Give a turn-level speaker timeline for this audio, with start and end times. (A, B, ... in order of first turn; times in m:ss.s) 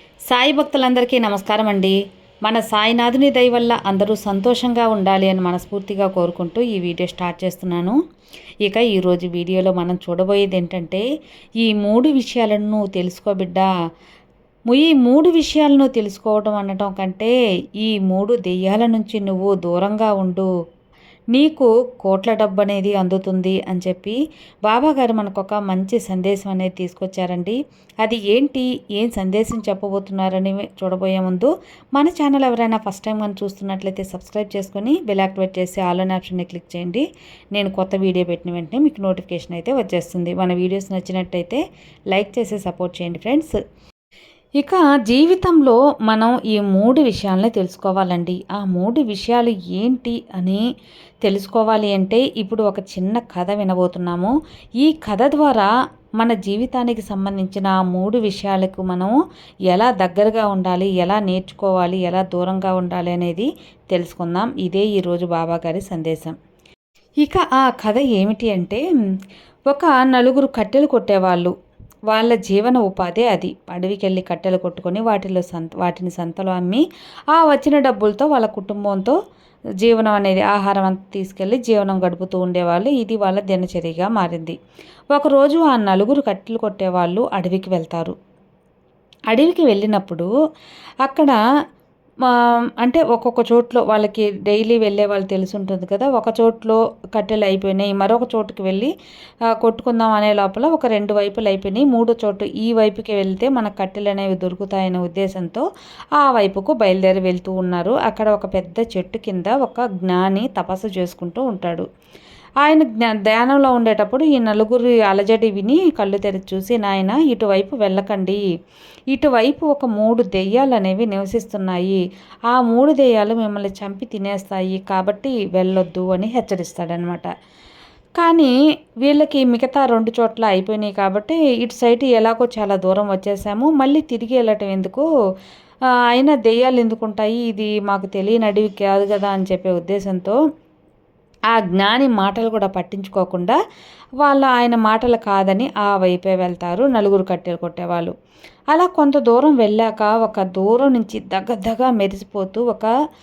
0:00.3-0:08.0 A
0:08.6-0:11.0 A
0:11.6-0:13.7 A
0:14.7-0:20.5 A
0:21.3-0:41.6 A
0:42.1-0:43.5 A
0:44.6-0:50.6 A
0:51.2-0:59.2 A
0:59.7-1:06.4 A
1:07.2-1:08.8 A
1:09.7-1:11.5 A
1:12.1-1:19.2 A
1:19.8-1:24.6 A
1:25.1-1:28.2 A
1:29.3-1:30.3 A
1:31.0-1:31.4 A
1:32.2-1:38.9 A
1:39.5-1:51.9 A
1:52.6-1:58.4 A
1:59.1-2:07.3 A
2:08.2-2:08.5 A
2:09.0-2:15.1 A
2:16.1-2:20.4 A
2:21.5-2:23.6 A
2:24.2-2:28.1 A
2:28.7-2:32.9 A